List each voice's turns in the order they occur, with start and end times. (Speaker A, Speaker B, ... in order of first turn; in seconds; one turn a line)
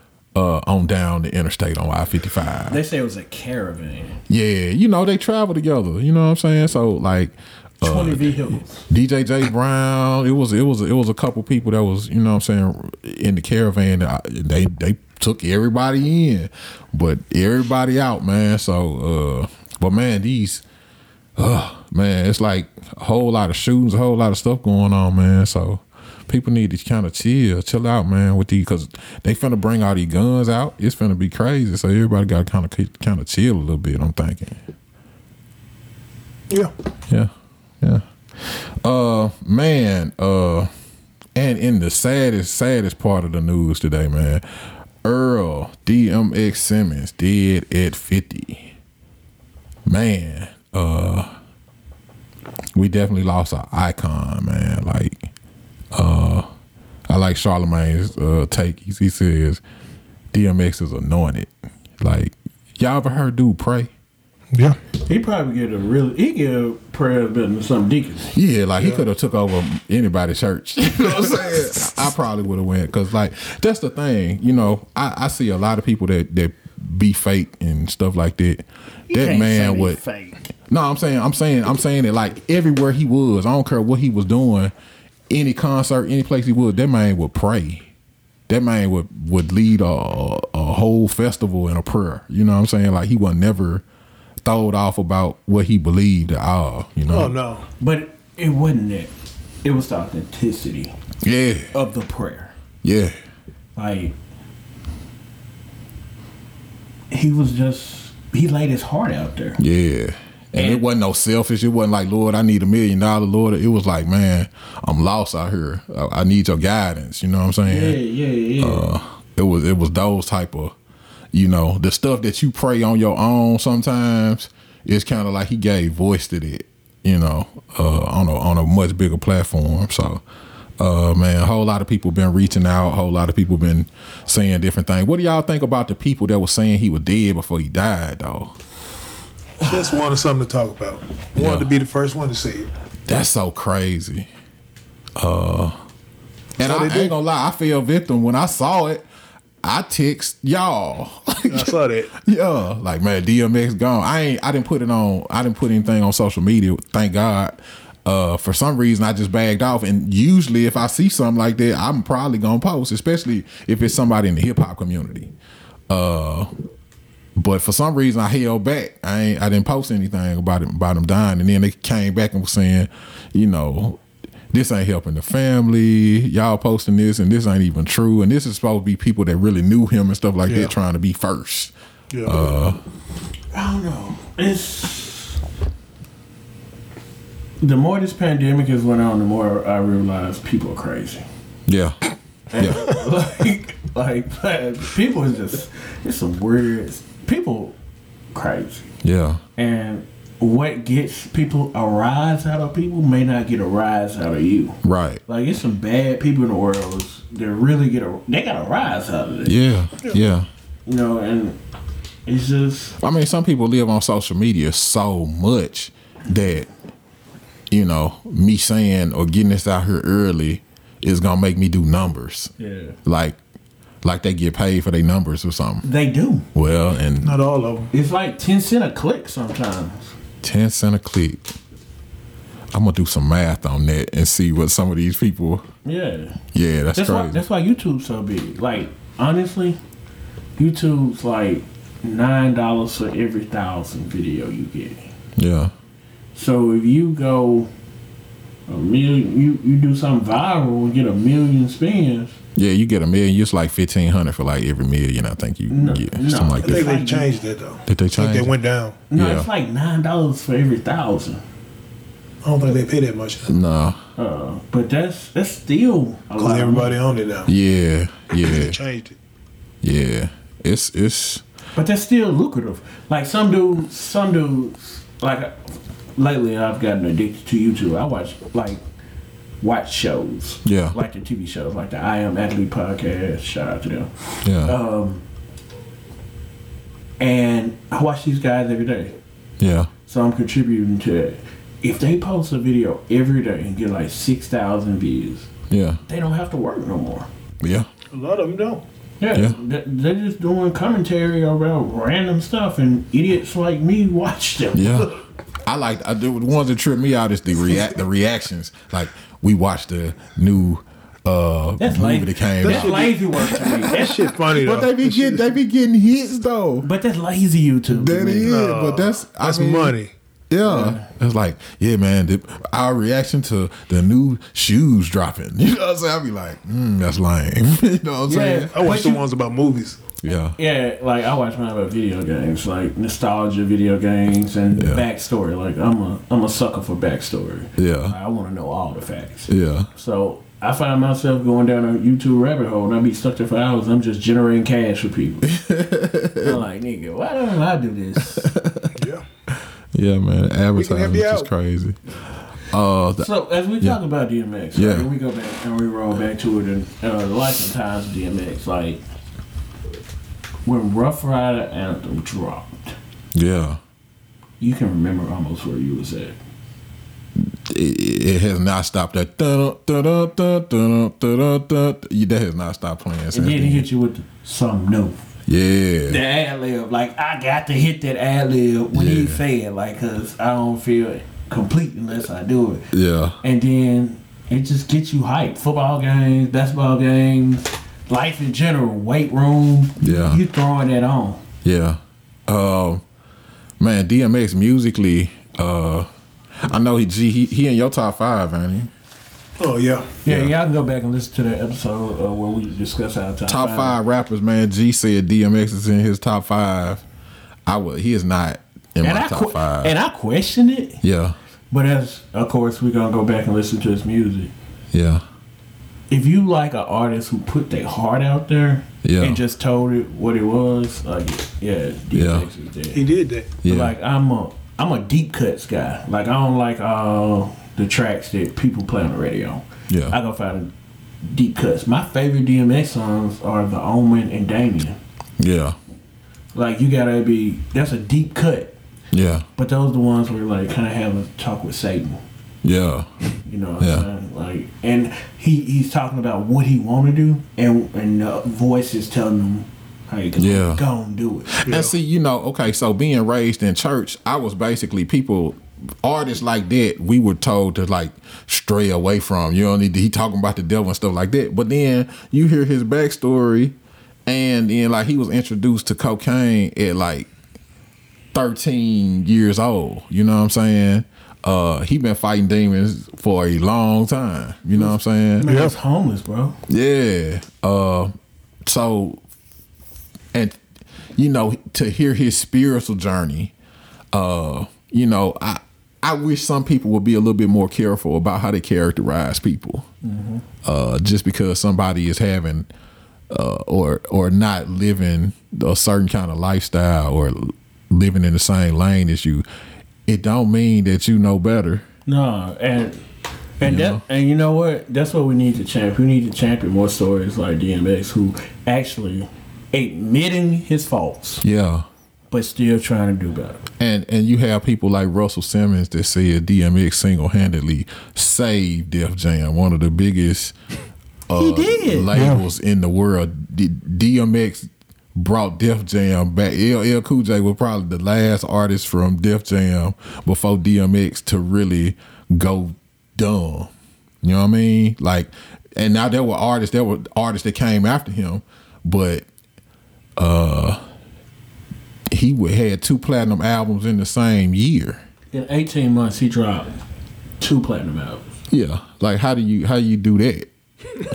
Speaker A: 0.3-2.8
Speaker B: 2.7-4.2
Speaker A: 4.3-20.6
Speaker B: 7.8-8.8
Speaker A: 21.4-34.6
Speaker A: 37.1-40.7
Speaker A: 41.3-44.4
Speaker A: 45.0-48.7
Speaker A: 49.9-51.3
Speaker A: 52.7-55.3
Speaker A: 55.9-56.5
Speaker A: 57.1-59.6
Speaker A: 60.3-63.9
Speaker B: 65.0-68.3
Speaker A: 68.3-80.0
Speaker C: 68.8-69.0
Speaker B: 79.1-80.4
Speaker A: 80.7-84.7
Speaker A: 85.3-87.9
Speaker A: 88.5-93.8
Speaker A: 94.4-97.3
Speaker C: 97.1-97.6
Speaker B: 97.8-99.1
Speaker B: 99.6-100.9
Speaker A: 101.2-101.7
Speaker B: 101.7-102.5
Speaker A: 102.8-103.2
Speaker B: 103.8-104.1
Speaker B: 107.1-109.6
Speaker A: 109.6-118.0
Speaker B: 110.5-110.8
Speaker B: 117.7-118.9
Speaker A: 118.6-120.7
Speaker A: 121.3-130.2
Speaker A: 130.8-138.6
Speaker C: 139.6-142.7
Speaker A: 141.3-141.7
Speaker A: 143.1-144.3
Speaker A: 145.2-145.8
Speaker A: 146.6-149.0
Speaker C: 146.6-147.1
Speaker A: 149.6-165.3
Speaker C: 151.5-152.1
Speaker A: 165.9-166.5
Speaker A: 167.4-181.7
Speaker C: 180.5-180.7
Speaker C: 182.1-182.4
Speaker A: 182.2-182.8
Speaker B: 183.5-185.4
Speaker B: 187.6-191.2
Speaker A: 191.7-192.0
Speaker B: 192.5-197.7
Speaker A: 192.6-192.9
Speaker B: 198.3-198.9
Speaker A: 199.0-199.4
Speaker B: 199.6-209.6
Speaker A: 204.8-205.2
Speaker A: 209.4-210.5
Speaker B: 210.8-211.6
Speaker B: 212.2-213.0
Speaker A: 213.0-216.7
Speaker A: 217.7-222.5
Speaker B: 222.6-223.0
Speaker A: 223.0-223.4
Speaker A: 224.0-225.8
Speaker B: 225.8-226.4
Speaker A: 226.5-227.3
Speaker C: 227.2-227.9
Speaker B: 227.9-230.1
Speaker A: 230.4-231.5
Speaker A: 232.7-235.6
Speaker B: 235.8-236.4
Speaker A: 236.5-237.4
Speaker B: 236.9-239.8
Speaker B: 240.6-245.1
Speaker A: 245.4-245.7
Speaker B: 246.3-247.7
Speaker B: 248.7-252.4
Speaker A: 252.6-256.9
Speaker B: 255.7-257.3
Speaker C: 256.6-259.0
Speaker A: 257.9-258.5
Speaker B: 259.1-261.4
Speaker A: 259.1-259.5
Speaker C: 262.4-263.6
Speaker A: 263.5-264.0
Speaker B: 264.1-266.9
Speaker C: 266.4-267.5
Speaker A: 267.4-268.8
Speaker C: 268.3-269.1
Speaker A: 269.8-271.4
Speaker B: 271.7-278.8
Speaker B: 279.6-285.2
Speaker A: 280.6-280.9
Speaker A: 284.4-284.8
Speaker B: 287.2-289.1
Speaker A: 289.6-289.9
Speaker B: 290.1-295.5
Speaker A: 295.7-296.0
Speaker B: 296.1-297.3
Speaker A: 297.6-297.9
Speaker C: 298.1-298.8
Speaker B: 299.2-305.2
Speaker A: 304.7-305.1
Speaker A: 305.6-316.9
Speaker B: 311.8-314.3
Speaker C: 312.6-315.5
Speaker B: 316.8-318.5
Speaker A: 317.9-319.9
Speaker C: 318.4-320.1
Speaker A: 320.5-328.7
Speaker B: 320.6-321.1
Speaker B: 328.3-329.2
Speaker C: 328.7-330.0
Speaker A: 330.2-330.6
Speaker B: 330.6-345.5
Speaker A: 334.8-335.0
Speaker A: 337.8-338.1
Speaker A: 339.5-339.9
Speaker A: 345.5-346.6
Speaker B: 346.4-348.5
Speaker A: 348.3-348.9
Speaker C: 348.9-349.2
Speaker A: 349.9-352.0
Speaker C: 350.7-351.5
Speaker A: 352.7-353.3
Speaker B: 353.2-359.0
Speaker A: 354.7-355.1
Speaker B: 360.6-363.0
Speaker A: 363.3-363.8
Speaker B: 364.6-366.4
Speaker A: 367.4-373.9
Speaker B: 373.3-375.2
Speaker A: 375.5-376.2
Speaker B: 376.1-382.9
Speaker A: 378.9-379.4
Speaker A: 382.9-383.4
Speaker B: 383.4-391.4
Speaker A: 390.0-390.4
Speaker A: 391.6-393.0
Speaker A: 393.8-396.1
Speaker A: 396.6-398.9
Speaker C: 399.6-400.1
Speaker B: 400.2-404.0
Speaker A: 400.2-400.5
Speaker A: 403.4-407.0
Speaker A: 407.6-409.9
Speaker B: 409.0-411.0
Speaker A: 411.0-411.4
Speaker B: 411.7-414.5
Speaker A: 414.9-415.2
Speaker B: 416.1-423.0
Speaker A: 419.0-419.4
Speaker A: 422.1-422.5
Speaker C: 422.9-423.5
Speaker A: 423.6-423.9
Speaker B: 423.6-430.7
Speaker A: 429.9-430.2
Speaker B: 431.2-435.0
Speaker A: 435.4-435.8
Speaker B: 436.5-438.8
Speaker A: 439.1-439.5
Speaker B: 439.6-442.2
Speaker A: 442.6-443.1
Speaker B: 443.4-451.6
Speaker A: 443.8-444.1
Speaker A: 450.4-450.8
Speaker A: 451.5-463.8
Speaker C: 451.6-451.9
Speaker A: 464.3-467.3
Speaker A: 468.3-475.4
Speaker B: 474.8-476.6
Speaker C: 475.4-475.7
Speaker A: 476.7-478.1
Speaker A: 478.6-479.2
Speaker A: 480.3-480.6
Speaker A: 481.1-483.5
Speaker A: 484.1-489.9
Speaker B: 490.0-490.4
Speaker A: 490.6-492.7
Speaker A: 493.3-499.4
Speaker A: 500.1-501.8
Speaker B: 502.1-503.0
Speaker B: 503.6-511.4
Speaker A: 503.6-504.0
Speaker A: 511.4-511.9
Speaker B: 512.3-513.6
Speaker A: 513.8-520.5
Speaker A: 521.3-533.7
Speaker B: 521.3-522.1
Speaker C: 522.1-522.4
Speaker A: 534.2-539.2
Speaker A: 540.2-540.8
Speaker A: 542.1-545.0
Speaker B: 545.3-546.8
Speaker B: 547.4-548.3
Speaker A: 548.5-550.5